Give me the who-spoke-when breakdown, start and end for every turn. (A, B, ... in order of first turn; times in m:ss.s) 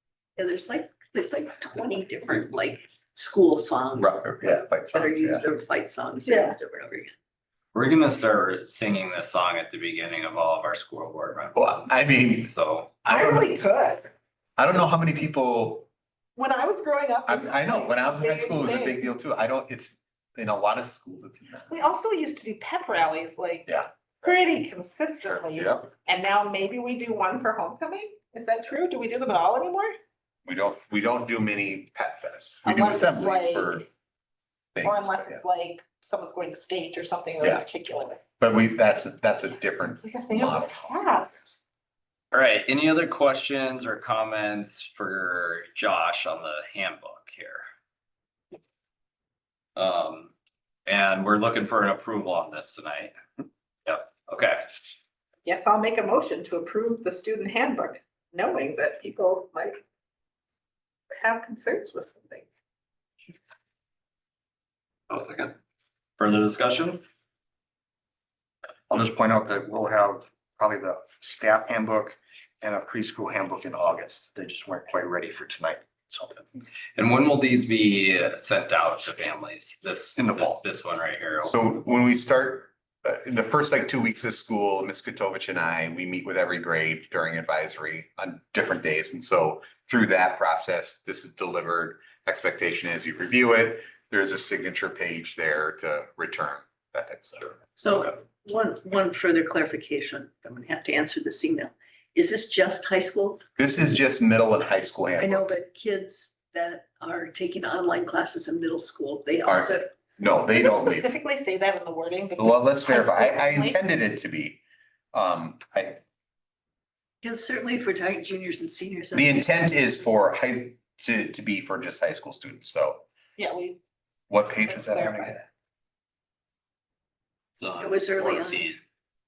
0:00.4-0:07.1 A
0:04.0-0:05.4 B
0:06.2-0:06.6 C
0:07.7-0:11.8 D
0:11.5-0:12.5 B
0:12.4-0:12.9 D
0:13.0-0:13.5 B
0:13.1-0:14.1 C
0:14.6-0:15.9 B
0:16.4-0:19.0 C
0:17.3-0:21.7 B
0:21.7-0:23.7 C
0:24.2-0:29.9 C
0:25.3-0:25.8 B
0:30.4-0:33.8 B
0:32.6-0:33.8 C
0:34.7-0:35.4 B
0:34.8-0:38.2 C
0:38.4-0:41.0 B
0:39.6-0:41.6 C
0:42.3-0:47.6 D
0:49.8-0:50.3 D
0:50.8-0:53.1 D
0:53.8-0:54.8 D
0:55.4-0:59.8 C
1:01.2-1:02.6 C
1:05.1-1:05.6 D
1:06.2-1:07.0 D
1:08.9-1:16.4 E
1:17.0-1:21.6 D
1:20.2-1:20.6 E
1:21.4-1:37.7 B
1:37.8-1:43.4 A
1:43.6-1:45.5 B
1:45.2-1:50.0 A
1:49.4-1:51.1 B
1:50.5-1:53.8 C
1:52.4-1:54.6 B
1:55.1-1:56.0 B
1:57.2-1:59.8 A
1:59.1-2:03.0 B
2:03.4-2:03.8 C
2:04.3-2:05.4 B
2:04.6-2:05.5 C
2:07.6-2:08.8 D
2:07.8-2:08.7 A